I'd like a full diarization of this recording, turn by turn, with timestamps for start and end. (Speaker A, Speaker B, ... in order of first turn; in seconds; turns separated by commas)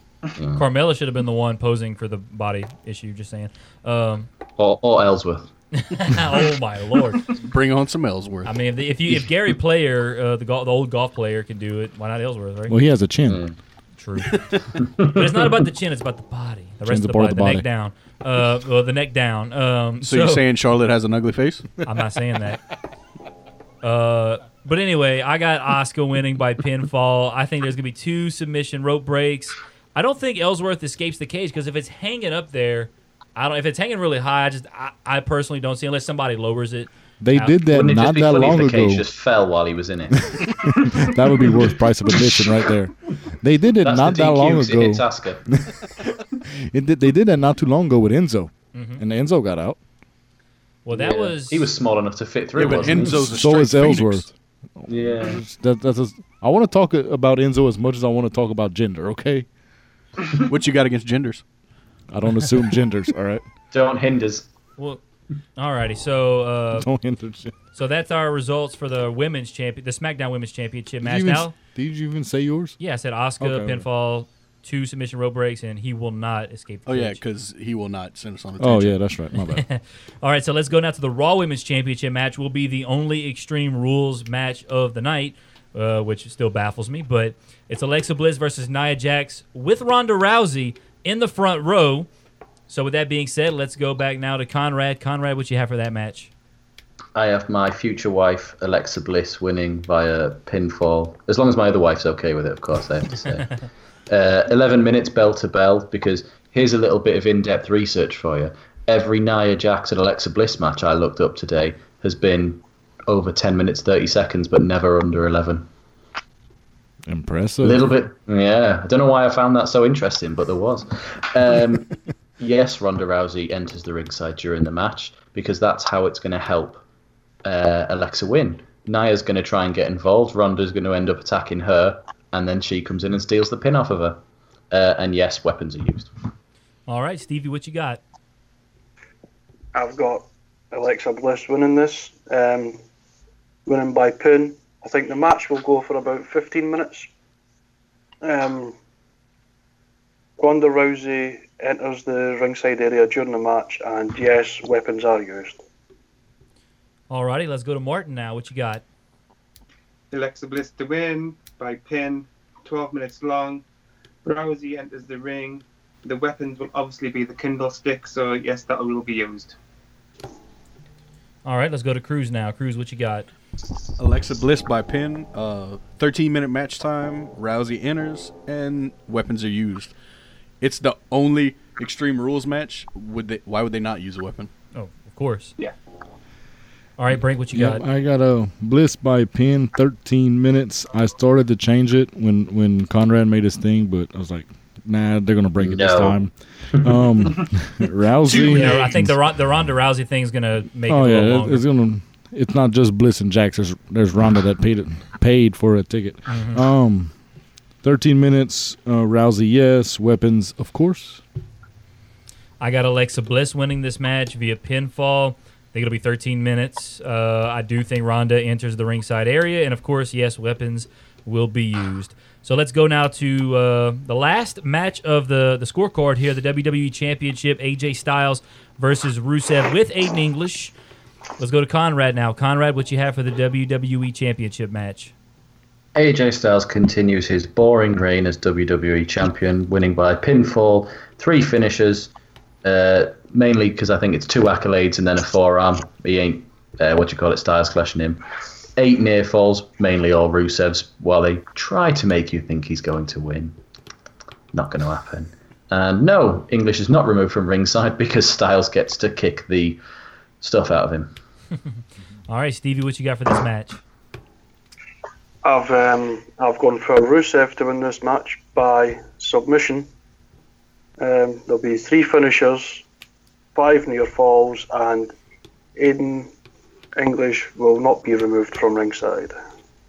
Speaker A: 0.4-0.6, Speaker B: 0.6-4.3, Speaker A: 4.6-5.5, Speaker B: 5.7-7.4, Speaker C: 7.4-8.6, Speaker B: 8.4-12.8, Speaker D: 12.7-13.4, Speaker A: 13.3-13.6, Speaker B: 14.0-14.5, Speaker A: 14.8-15.2, Speaker B: 15.0-20.4, Speaker D: 16.9-17.6, Speaker C: 20.0-21.7, Speaker B: 21.9-22.6, Speaker B: 23.8-37.6, Speaker D: 37.2-39.1, Speaker A: 37.7-41.7, Speaker D: 40.3-45.7, Speaker A: 43.8-45.5, Speaker D: 46.5-49.8, Speaker B: 48.7-49.0, Speaker B: 50.9-51.7, Speaker A: 50.9-53.3, Speaker C: 52.5-54.2, Speaker D: 53.1-59.5, Speaker A: 54.9-55.4, Speaker C: 60.5-61.4, Speaker D: 62.1-63.4, Speaker A: 63.7-64.5, Speaker B: 65.6-66.9, Speaker D: 66.8-67.5, Speaker B: 67.7-71.5, Speaker D: 71.0-72.8, Speaker B: 72.8-77.2, Speaker D: 73.4-73.8, Speaker C: 76.9-79.0, Speaker D: 78.6-79.7, Speaker B: 79.4-92.1, Speaker B: 92.7-96.3, Speaker A: 97.2-115.7, Speaker D: 117.1-117.9, Speaker A: 117.6-126.8, Speaker A: 127.4-136.1, Speaker B: 136.9-138.0, Speaker E: 139.7-142.8, Speaker E: 143.7-147.1, Speaker E: 148.2-148.8, Speaker E: 150.4-155.6, Speaker B: 157.1-158.8, Speaker F: 160.1-163.6, Speaker F: 164.2-169.6, Speaker B: 171.4-173.3, Speaker C: 174.0-179.9, Speaker C: 180.6-184.5, Speaker B: 184.7-185.5, Speaker B: 187.0-187.8, Speaker D: 187.5-199.2, Speaker A: 195.6-196.2, Speaker A: 196.8-197.5, Speaker C: 198.3-198.6, Speaker B: 198.3-201.6, Speaker D: 200.9-207.1, Speaker B: 206.3-206.6, Speaker D: 207.8-211.2, Speaker B: 212.6-230.7, Speaker B: 231.4-235.1, Speaker A: 235.9-242.1, Speaker A: 242.6-248.2, Speaker A: 248.8-253.6, Speaker A: 254.5-259.8, Speaker A: 260.4-261.1, Speaker B: 262.3-263.8, Speaker E: 265.4-269.9, Speaker E: 271.0-272.9, Speaker E: 273.6-275.1, Speaker E: 275.8-276.3, Speaker E: 277.0-279.4